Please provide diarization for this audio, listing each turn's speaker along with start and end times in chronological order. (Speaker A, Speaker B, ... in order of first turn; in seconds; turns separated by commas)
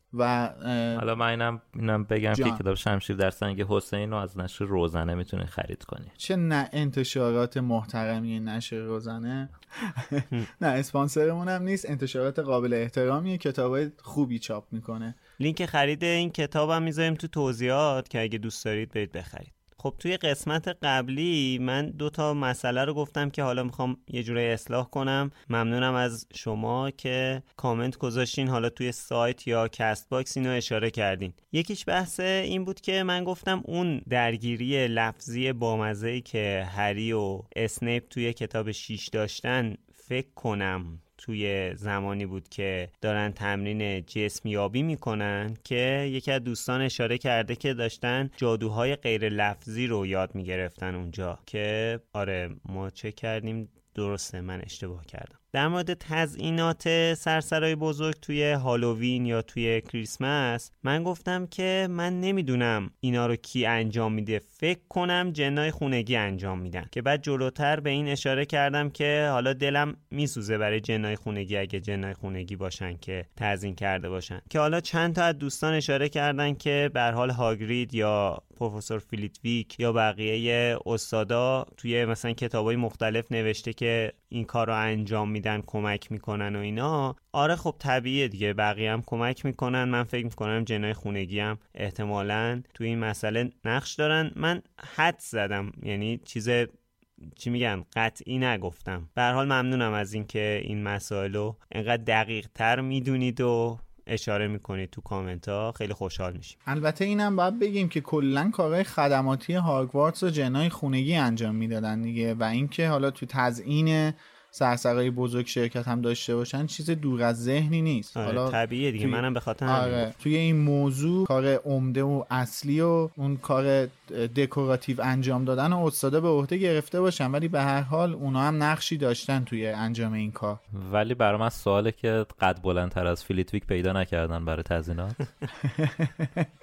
Speaker A: 0.1-1.0, Speaker B: 0.9-6.1, Speaker A: 2.3-2.6, Speaker A: 6.2-15.2, Speaker C: 15.4-96.7, Speaker C: 97.3-106.6, Speaker A: 106.7-130.6, Speaker C: 118.2-120.1, Speaker B: 130.7-135.3, Speaker A: 135.8-136.2